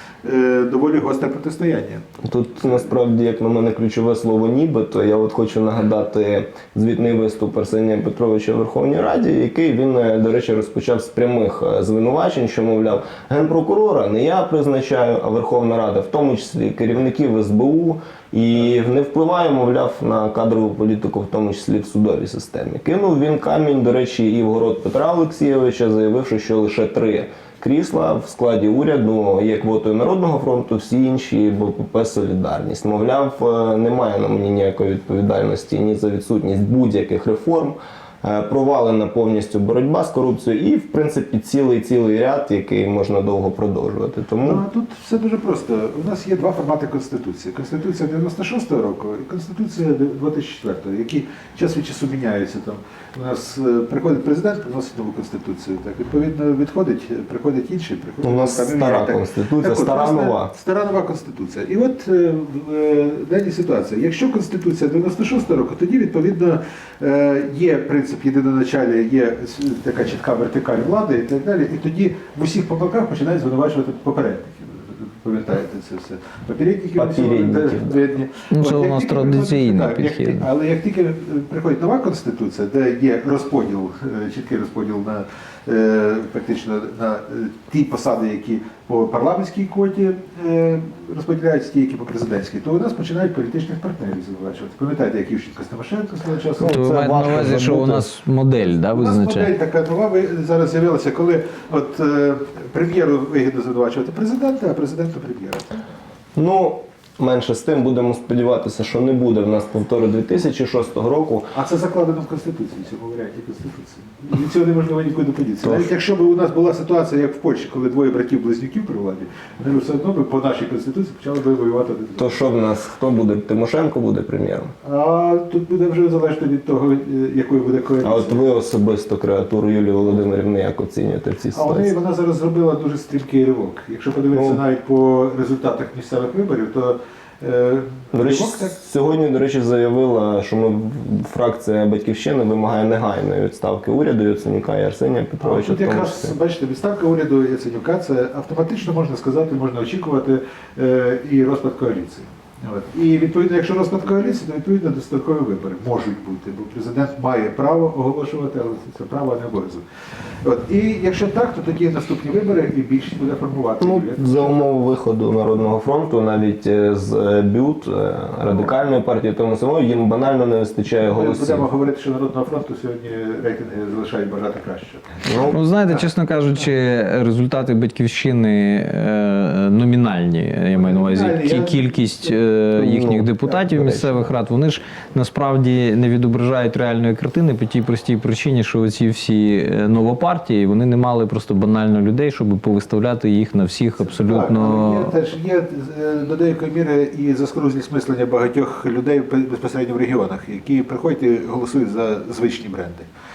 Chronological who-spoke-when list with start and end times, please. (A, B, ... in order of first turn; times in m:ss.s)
0:00.2-0:02.1 A
0:02.2-0:44.6 B
0:44.4-1:37.0 A
0:58.2-1:00.5 B
1:17.0-1:18.0 B
1:18.5-1:20.4 C
1:36.6-1:38.1 B
1:36.7-1:39.5 C
1:38.9-1:45.9 A
1:46.4-1:51.5 B
1:51.5-2:02.4 A
1:55.6-1:55.9 B
2:02.2-2:04.7 B
2:04.8-2:08.4 A
2:08.0-2:11.9 B
2:11.5-2:18.8 A
2:14.3-2:14.6 B
2:18.1-2:26.3 B
2:25.4-2:39.8 A
2:40.4-2:44.6 A
2:43.8-2:51.6 B
2:51.0-2:55.3 A
2:55.3-2:55.6 B
2:55.5-3:15.1 C
3:00.7-3:01.8 A
3:02.8-3:04.2 B
3:14.0-3:23.1 A